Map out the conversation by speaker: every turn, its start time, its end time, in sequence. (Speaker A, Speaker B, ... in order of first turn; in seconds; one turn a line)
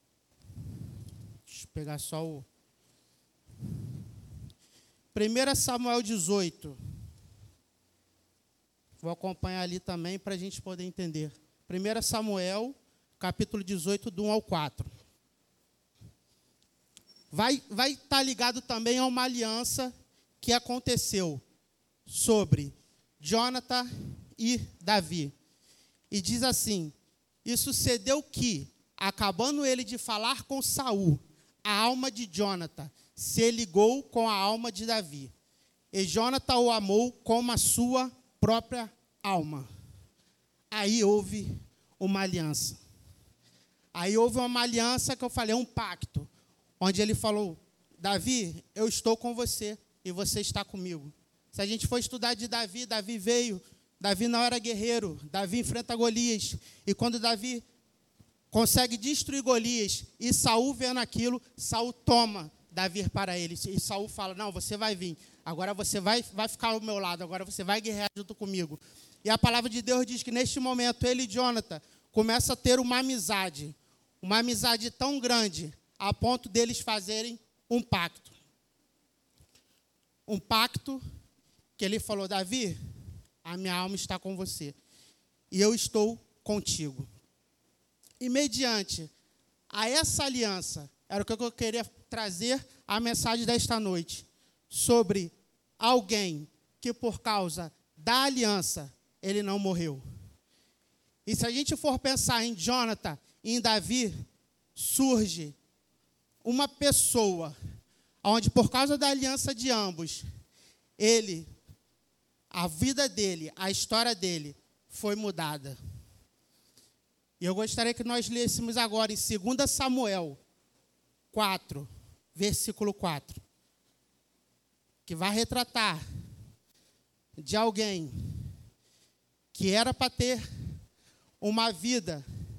Speaker A: 1.5-2.5
Speaker A: 5.1-6.8
Speaker A: 9.0-14.9
Speaker A: 17.3-21.4
Speaker A: 22.1-25.3
Speaker A: 26.1-35.3
Speaker A: 35.9-39.7
Speaker A: 40.7-42.8
Speaker A: 43.9-46.3
Speaker A: 46.8-57.6
Speaker A: 58.5-78.3
Speaker A: 80.3-81.0
Speaker A: 81.8-82.8
Speaker A: 83.4-84.8
Speaker A: 85.5-87.1
Speaker A: 88.2-89.1
Speaker A: 89.7-100.0
Speaker A: 101.2-104.1
Speaker A: 104.7-105.5
Speaker A: 106.4-107.5
Speaker A: 108.2-110.2
Speaker A: 111.0-111.5
Speaker A: 112.5-115.8
Speaker A: 117.4-120.4
Speaker A: 121.3-123.4
Speaker A: 125.0-126.0
Speaker A: 127.4-128.1
Speaker A: 129.5-130.4
Speaker A: 131.4-132.2